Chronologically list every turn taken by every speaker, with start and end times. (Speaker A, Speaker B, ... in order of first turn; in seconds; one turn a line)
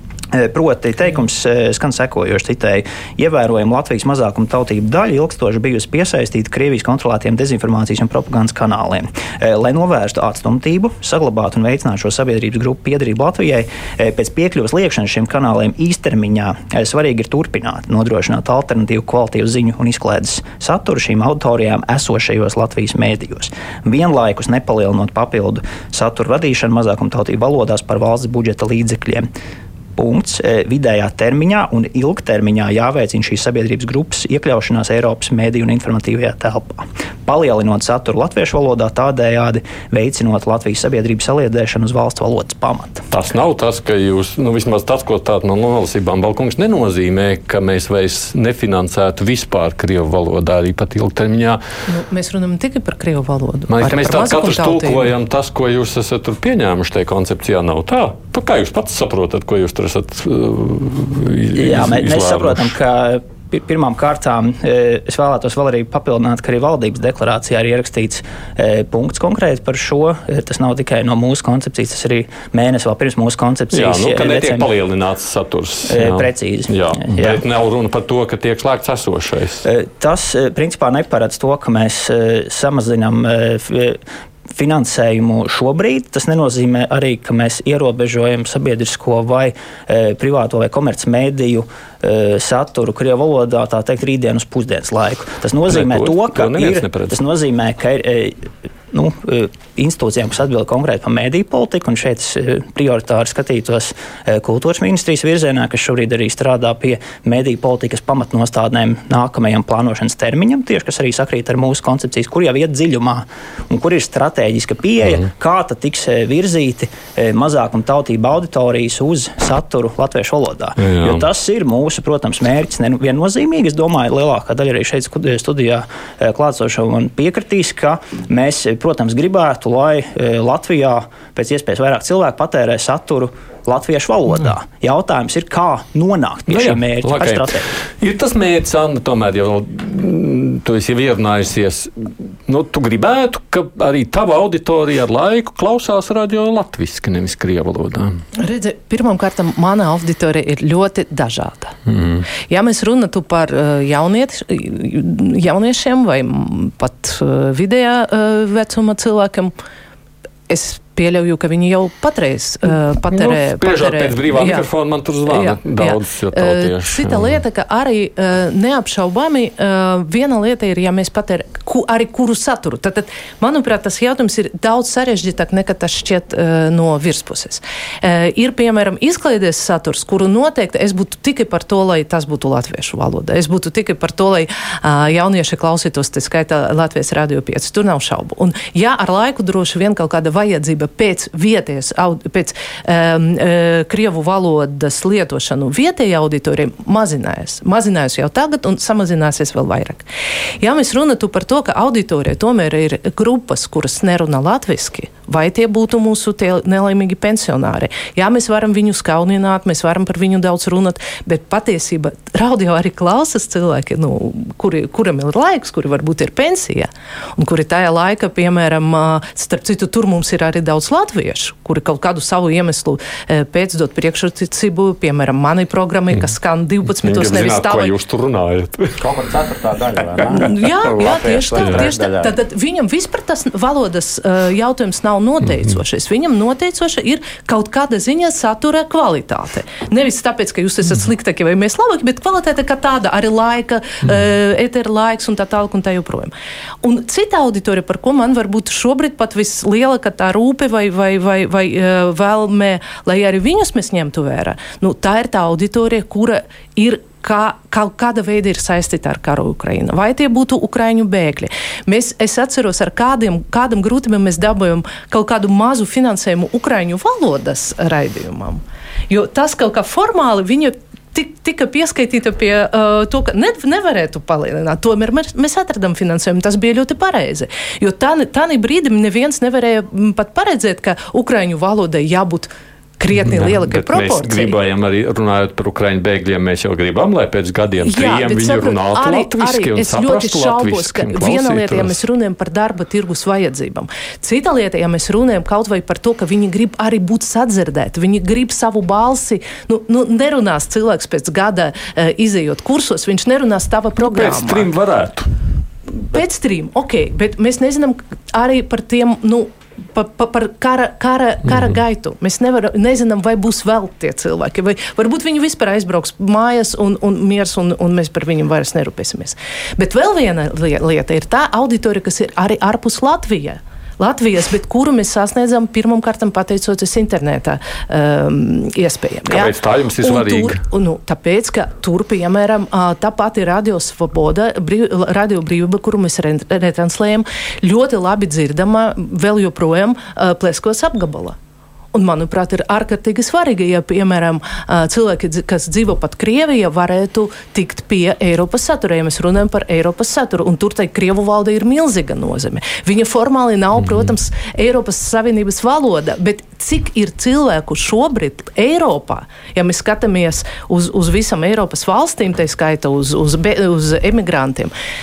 Speaker A: 0.3-29.3
Speaker A: 30.0-43.1
Speaker B: 43.1-51.6
Speaker C: 51.9-55.1
Speaker B: 53.7-62.7
Speaker A: 61.5-74.7
Speaker B: 73.7-79.6
Speaker A: 75.9-77.4
Speaker A: 79.6-84.0
Speaker A: 84.5-137.7
Speaker B: 95.7-97.2
Speaker B: 120.8-121.2
Speaker B: 136.5-148.2
Speaker C: 148.4-151.7
Speaker B: 151.9-152.2
Speaker C: 152.5-159.5
Speaker C: 160.5-164.7
Speaker B: 163.1-167.3
Speaker C: 165.2-200.0
Speaker C: 200.6-227.9
Speaker B: 227.0-229.0
Speaker D: 229.0-232.3
Speaker C: 230.2-284.5
Speaker B: 231.6-231.8
Speaker B: 283.1-292.0
Speaker C: 287.8-304.7
Speaker B: 304.0-305.3
Speaker C: 306.1-341.4
Speaker B: 329.3-330.6
Speaker C: 341.9-364.7